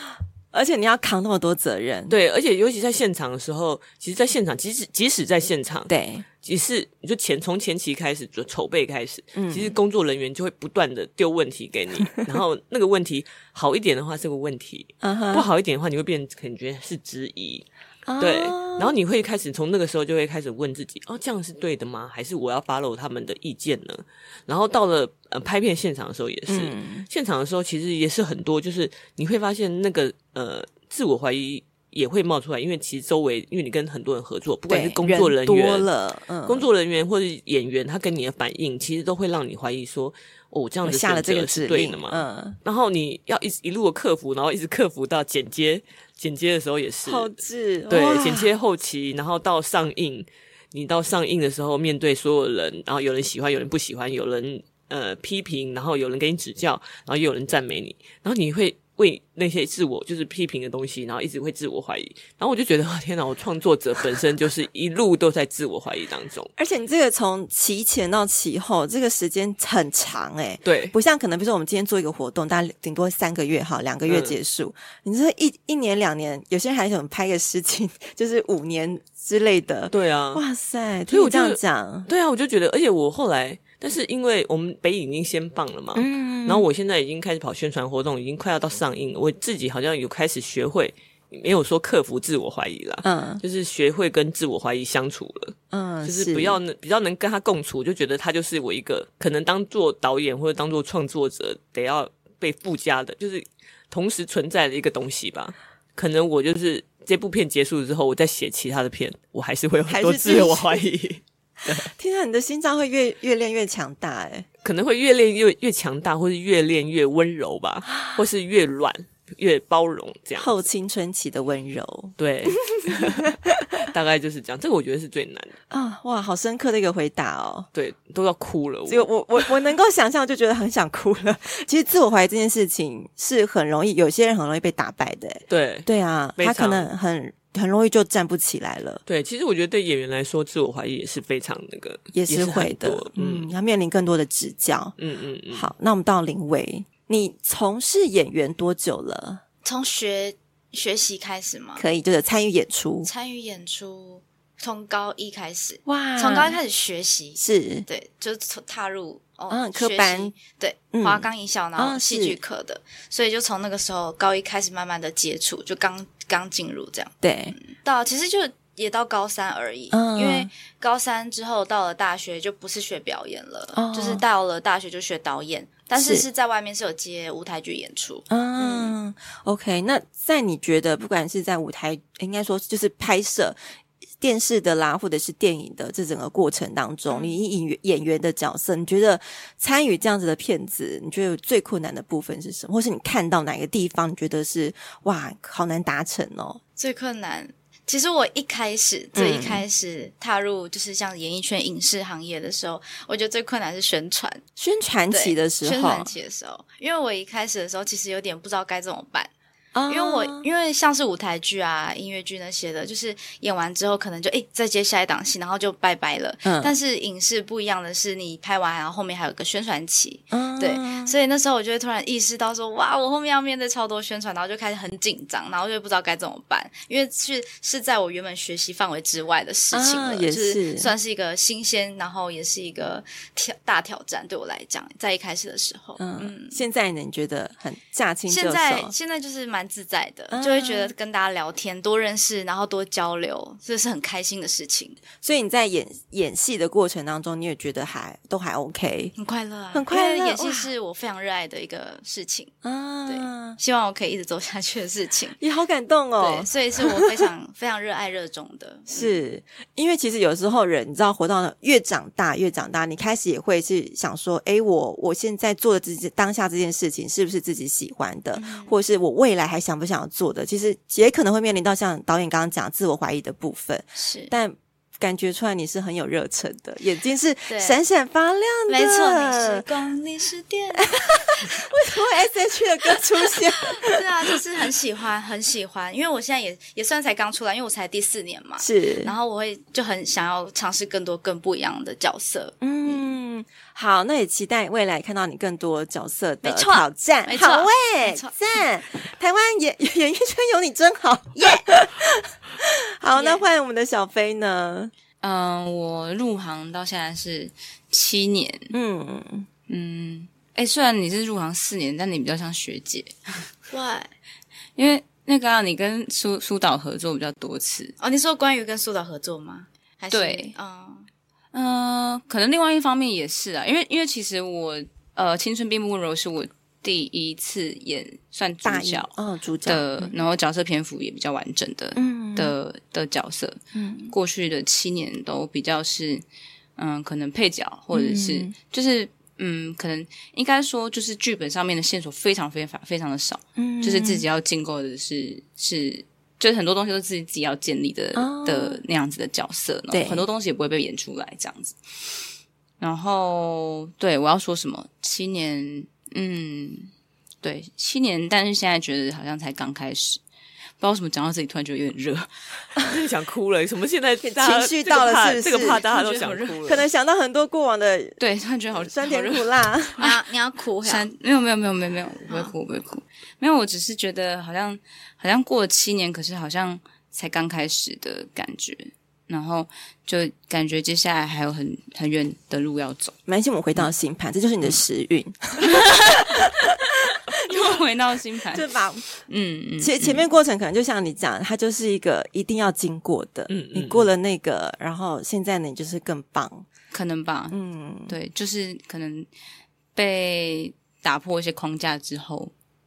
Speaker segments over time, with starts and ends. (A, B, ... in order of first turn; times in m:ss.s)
0:00.5-0:02.1 A
0:02.1-0:17.6 B
0:05.9-0:06.2 A
0:09.4-0:09.8 A
0:15.0-0:15.5 A
0:18.1-0:19.0 A
0:18.2-0:35.9 B
0:26.5-0:27.1 A
0:34.7-0:36.7 A
0:36.4-0:47.3 B
0:40.8-0:42.6 A
0:47.0-0:48.5 A
0:47.9-1:06.5 B
1:06.6-1:22.1 A
1:10.6-1:10.9 B
1:14.0-1:14.4 B
1:19.9-1:20.4 B
1:21.1-1:51.9 B
1:25.9-1:26.7 A
1:33.0-1:33.4 A
1:35.7-1:36.6 A
1:49.9-1:50.8 A
1:51.8-1:54.4 A
1:54.6-2:00.6 B
2:00.4-2:03.5 A
2:02.2-2:05.6 B
2:05.7-2:07.7 A
2:07.7-2:09.4 B
2:08.9-2:19.0 A
2:15.5-2:16.9 B
2:19.1-2:23.5 B
2:22.1-2:24.9 A
2:25.0-2:25.7 B
2:25.5-2:29.4 A
2:29.6-2:31.8 C
2:31.8-2:33.1 A
2:33.0-2:58.9 C
2:35.8-2:36.6 A
2:37.4-2:37.8 A
2:39.5-2:40.3 A
2:40.9-2:42.4 A
2:47.2-2:47.6 A
2:49.9-2:50.5 A
2:53.7-2:54.2 A
2:55.9-2:56.2 A
2:58.3-3:03.6 A
3:04.2-3:16.6 A
3:07.1-3:07.4 C
3:16.8-3:24.4 C
3:19.1-3:19.6 A
3:24.6-3:26.1 A
3:25.1-3:29.3 C
3:29.7-3:30.5 A
3:29.9-3:56.6 C
3:36.4-3:36.7 A
3:40.3-3:41.1 A
3:49.7-3:50.9 A
3:56.0-3:58.9 A
3:58.3-4:05.0 C
4:00.3-4:00.9 A
4:05.2-4:09.1 A
4:09.2-4:12.5 C
4:09.7-4:10.7 A
4:12.6-4:13.6 A
4:13.1-4:15.4 C
4:15.4-4:17.3 A
4:16.2-4:19.1 C
4:18.9-4:39.6 A
4:28.3-4:28.7 C
4:34.0-4:34.3 C
4:37.5-4:37.8 C
4:38.7-4:41.6 C
4:40.8-4:44.4 A
4:43.2-4:53.1 C
4:48.6-4:49.1 A
4:52.6-5:04.9 A
4:56.4-4:58.3 C
5:01.3-5:01.7 C
5:03.2-5:03.4 C
5:05.2-5:08.7 D
5:08.7-5:09.5 A
5:09.7-5:13.4 D
5:13.7-5:14.1 C
5:14.8-5:17.9 D
5:18.0-5:21.0 C
5:20.1-5:20.5 D
5:21.5-5:29.1 D
5:28.6-5:30.1 A
5:29.6-5:33.6 D
5:32.0-5:32.5 A
5:33.7-5:34.1 A
5:34.1-5:36.2 D
5:36.8-5:52.2 D
5:37.9-5:38.5 A
5:43.6-5:44.2 A
5:48.2-5:48.8 A
5:49.9-5:50.2 A
5:52.8-5:56.9 D
5:57.4-6:00.2 D
6:00.8-6:02.3 D
6:02.8-6:06.8 B
6:04.2-6:05.8 A
6:05.8-6:06.7 D
6:06.6-6:08.2 A
6:08.2-6:10.2 D
6:08.7-6:10.0 A
6:10.0-6:11.0 C
6:10.8-6:23.1 D
6:23.3-6:26.0 A
6:25.6-6:26.7 D
6:27.4-6:28.6 D
6:28.5-6:29.1 A
6:29.3-6:30.2 D
6:29.8-6:36.6 A
6:33.5-6:34.1 B
6:36.9-6:37.6 D
6:37.5-6:38.1 A
6:38.1-6:39.3 D
6:39.9-6:42.5 D